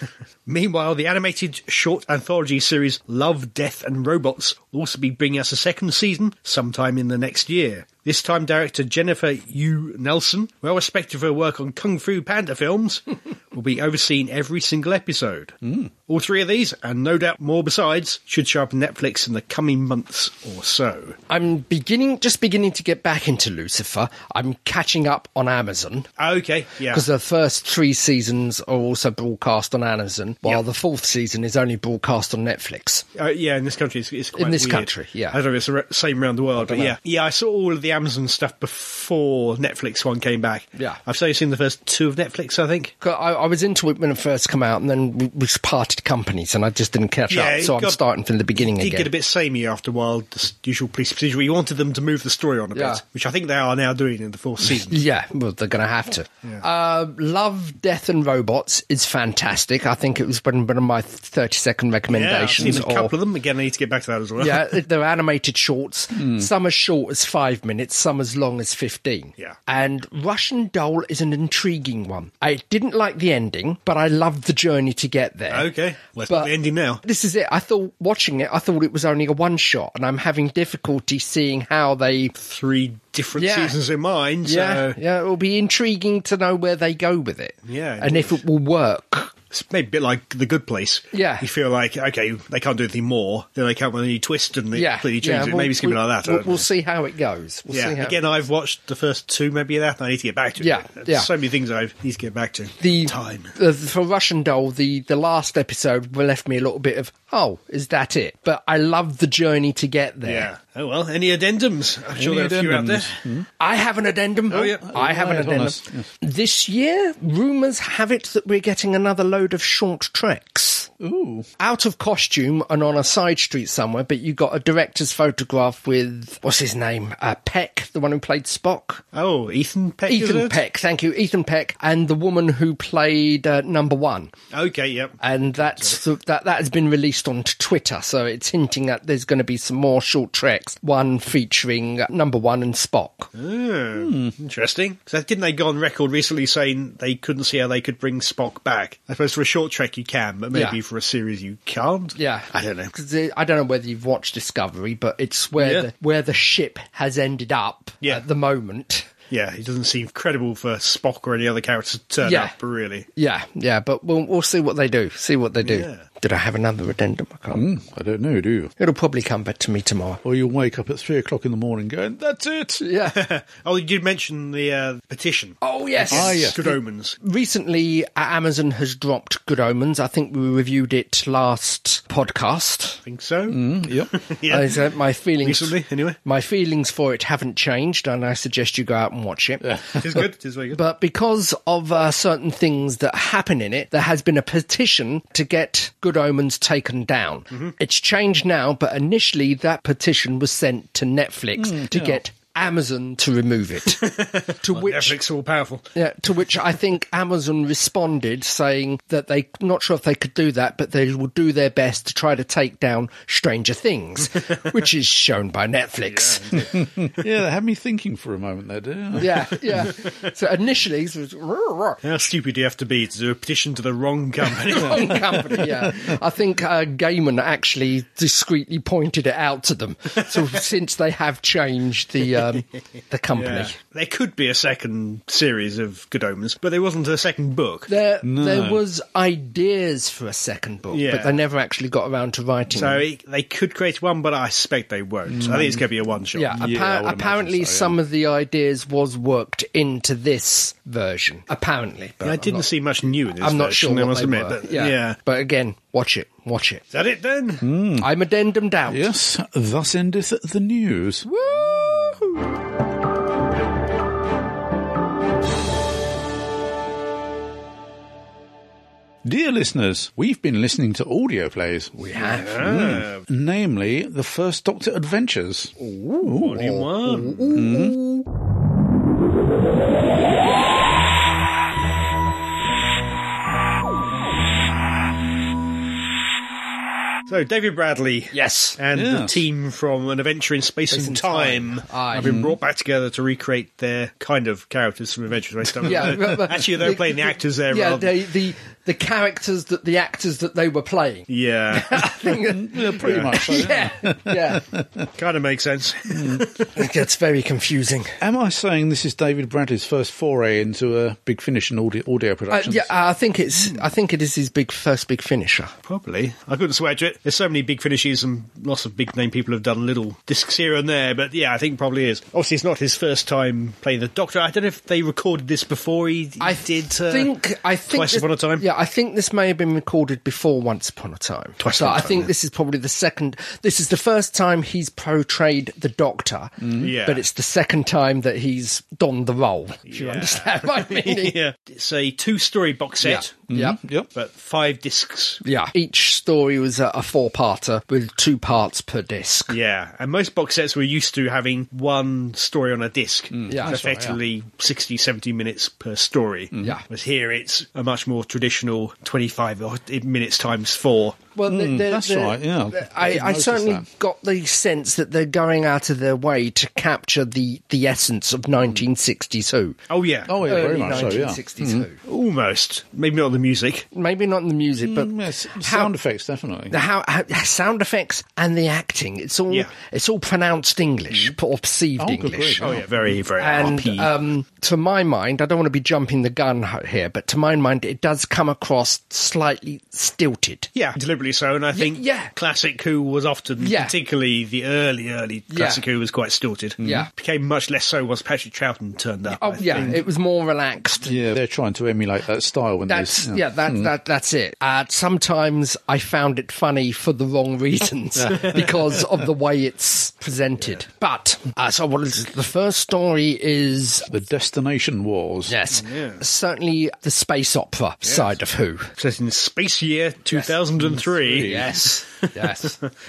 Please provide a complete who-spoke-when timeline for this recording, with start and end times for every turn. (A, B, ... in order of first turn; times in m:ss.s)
0:00.4-0:21.2 A
0:15.6-0:15.9 B
0:21.3-0:26.1 C
0:26.2-0:27.0 A
0:26.9-0:33.0 C
0:33.2-0:42.9 A
0:34.4-0:35.4 C
0:36.6-0:37.0 C
0:43.0-0:49.1 C
0:47.3-0:48.0 A
0:48.6-0:55.0 A
0:52.7-0:53.0 C
0:54.8-1:03.1 C
1:02.1-1:04.8 A
1:04.4-1:15.7 C
1:06.2-1:06.5 B
1:15.5-1:17.0 A
1:17.0-1:22.3 C
1:22.3-1:25.0 A
1:23.4-1:23.8 C
1:24.4-1:29.3 C
1:27.6-1:28.4 A
1:29.5-1:36.6 A
1:31.1-1:31.5 C
1:34.7-1:38.2 C
1:37.7-1:43.5 A
1:40.6-1:41.3 C
1:42.8-1:50.5 C
1:50.2-1:53.1 A
1:52.1-1:53.5 B
1:53.6-2:00.9 C
1:54.5-1:54.8 A
1:54.5-1:56.1 B
2:01.0-2:01.5 B
2:01.6-2:09.0 C
2:09.1-2:10.6 A
2:10.1-2:14.3 C
2:14.5-2:15.2 A
2:15.2-2:23.3 C
2:23.3-2:32.9 A
2:24.0-2:24.3 B
2:32.2-2:39.1 C
2:35.6-2:35.9 A
2:39.3-2:43.1 A
2:42.2-2:42.5 C
2:43.2-2:47.6 C
2:45.6-2:46.0 A
2:47.5-2:48.7 B
2:48.8-2:50.2 C
2:50.2-2:52.8 B
2:52.8-2:53.2 C
2:53.0-2:57.2 A
2:55.6-3:03.0 C
2:56.0-2:56.6 B
3:03.0-3:04.8 A
3:03.5-3:04.1 B
3:04.5-3:10.2 C
3:05.4-3:06.2 A
3:09.6-3:10.0 B
3:09.9-3:10.8 A
3:10.7-3:24.1 C
3:21.6-3:22.2 B
3:23.8-3:25.9 A
3:24.6-3:25.2 C
3:25.9-3:36.6 C
3:36.0-3:36.9 A
3:36.6-3:39.9 B
3:39.2-3:42.0 C
3:42.0-3:45.6 A
3:44.6-3:53.7 C
3:45.6-3:46.1 B
3:53.3-3:57.9 A
3:57.9-4:03.0 C
3:58.2-3:58.8 B
4:00.9-4:01.3 A
4:02.7-4:06.6 A
4:05.3-4:05.8 B
4:06.3-4:12.7 C
4:06.5-4:08.0 B
4:12.2-4:15.2 A
4:13.4-4:16.8 C
4:16.9-4:17.7 A
4:17.6-4:18.1 B
4:18.0-4:19.1 C
4:18.9-4:21.3 B
4:21.2-4:22.4 C
4:29.2-4:32.0 B
4:32.0-4:32.8 C
4:32.1-4:33.2 A
4:32.5-4:36.8 B
4:35.8-4:38.2 C
4:36.4-4:37.5 A
4:37.5-4:38.0 B
4:47.3-4:58.3 A
4:48.3-4:48.8 C
4:48.9-4:49.4 B
4:50.9-4:52.3 C
4:52.2-4:52.6 B
4:55.8-5:04.6 C
5:01.3-5:02.4 A
5:02.5-5:05.0 B
5:03.0-5:03.4 A
5:05.1-5:06.8 A
5:06.1-5:06.4 B
5:06.7-5:08.2 C
5:08.2-5:12.9 B
5:12.5-5:15.7 C
5:15.8-5:27.3 A
5:26.4-5:41.4 C
5:27.9-5:28.6 A
5:31.6-5:32.3 A
5:36.6-5:36.9 B
5:36.8-5:37.2 A
5:39.9-5:43.3 A
5:43.0-5:43.8 C
5:43.5-5:44.1 B
5:44.1-5:45.4 A
5:45.4-5:49.5 C
5:49.5-6:01.2 A
5:53.3-5:54.2 B
5:53.5-5:53.7 C
5:56.5-5:56.8 B
6:01.4-6:09.8 C
6:01.4-6:03.8 B
6:09.9-6:11.1 A
6:10.3-6:11.9 B
6:10.4-6:12.0 C
6:12.0-6:13.8 A
6:13.9-6:15.9 C
6:14.8-6:16.8 B
6:16.7-6:22.8 C
6:22.0-6:22.8 B
6:22.6-6:24.1 A
6:23.4-6:30.7 C
6:30.7-6:40.0 A
6:31.7-6:32.3 C
6:33.6-6:33.9 C
6:35.5-6:35.8 C
6:36.8-6:37.1 B
6:36.8-6:37.1 C
6:39.3-6:41.2 C
6:41.0-6:43.9 B
6:42.9-6:54.1 C
6:48.3-6:48.5 A
6:54.1-6:55.6 B
6:55.5-6:58.9 C
6:55.7-6:56.2 A
6:58.0-6:58.3 A
6:59.0-7:02.9 A
7:01.1-7:01.8 B
7:01.3-7:02.8 C